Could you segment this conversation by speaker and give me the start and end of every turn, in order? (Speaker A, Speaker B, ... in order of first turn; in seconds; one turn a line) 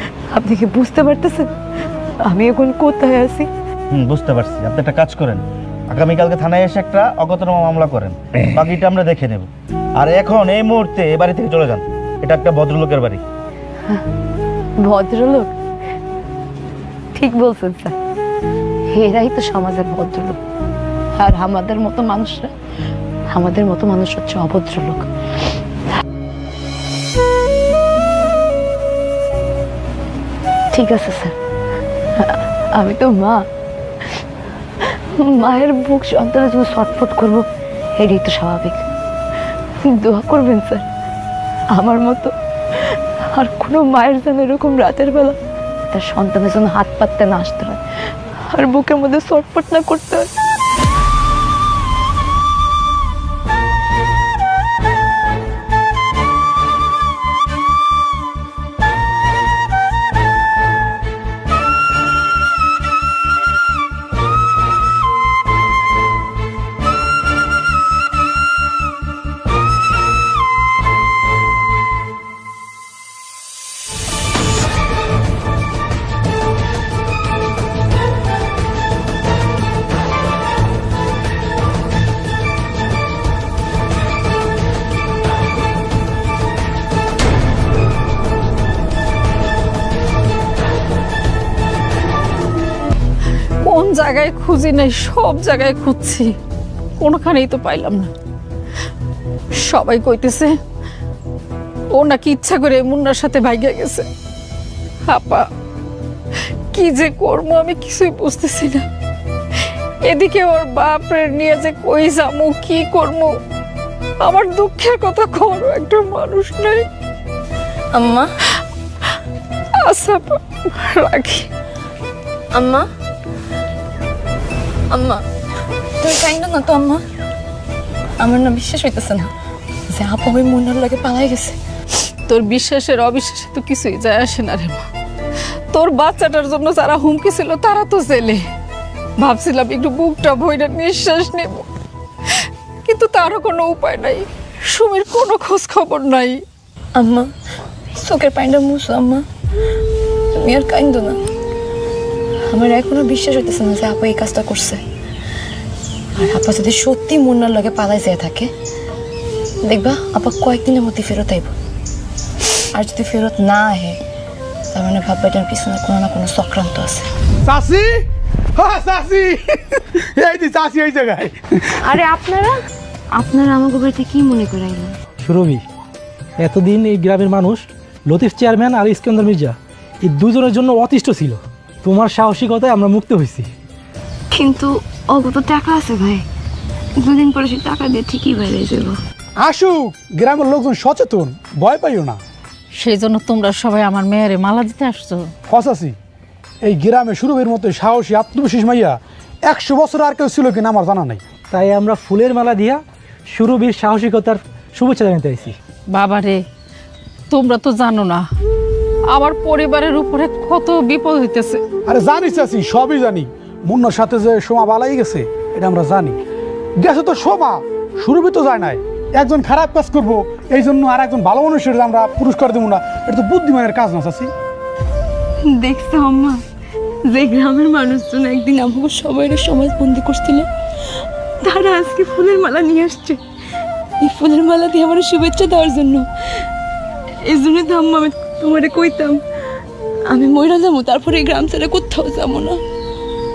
Speaker A: 0.3-1.5
Speaker A: 2.2-3.5
Speaker B: 3.9-13.2
Speaker A: 14.8-15.5
Speaker A: 17.1-18.0
Speaker A: 18.9-20.4
Speaker A: 21.2-22.5
Speaker A: 23.3-25.1
Speaker A: 30.7-31.4
Speaker A: 32.2-33.5
Speaker A: 35.2-37.5
Speaker A: 38.0-38.8
Speaker A: 39.9-40.9
Speaker A: 41.7-42.3
Speaker A: 42.8-45.4
Speaker A: 45.9-47.8
Speaker A: 48.5-50.3
Speaker C: 93.6-96.3
Speaker C: 97.0-98.1
Speaker C: 99.6-100.5
Speaker C: 101.9-104.0
Speaker C: 105.1-105.5
Speaker C: 106.7-108.8
Speaker C: 110.1-113.3
Speaker C: 114.2-116.8
Speaker D: 117.9-118.3
Speaker C: 119.8-121.5
Speaker D: 122.5-122.8
Speaker D: 124.9-125.2
Speaker D: 126.0-127.0
Speaker D: 128.2-129.3
Speaker D: 129.9-131.5
Speaker C: 132.3-134.8
Speaker C: 135.7-138.4
Speaker C: 139.2-141.7
Speaker C: 142.8-146.4
Speaker D: 147.0-147.3
Speaker D: 148.0-149.2
Speaker D: 150.4-151.2
Speaker D: 152.5-154.8
Speaker D: 156.2-158.5
Speaker D: 159.7-161.5
Speaker D: 162.8-164.0
Speaker D: 164.7-167.0
Speaker E: 167.4-168.1
Speaker E: 168.6-171.4
Speaker A: 171.8-172.6
Speaker A: 173.2-174.9
Speaker F: 175.2-175.7
Speaker F: 176.4-183.5
Speaker D: 184.3-186.2
Speaker D: 187.1-188.9
Speaker E: 189.4-192.2
Speaker C: 192.8-195.3
Speaker E: 195.5-195.9
Speaker E: 196.6-201.2
Speaker F: 201.5-205.6
Speaker C: 205.9-206.4
Speaker C: 207.3-208.2
Speaker C: 209.1-211.6
Speaker E: 211.9-216.2
Speaker E: 216.8-224.3
Speaker A: 225.6-226.4
Speaker A: 227.1-230.4
Speaker A: 231.4-233.2
Speaker A: 234.0-236.0
Speaker D: 234.9-236.0
Speaker A: 237.3-239.1
Speaker D: 237.3-239.1
Speaker A: 240.1-242.5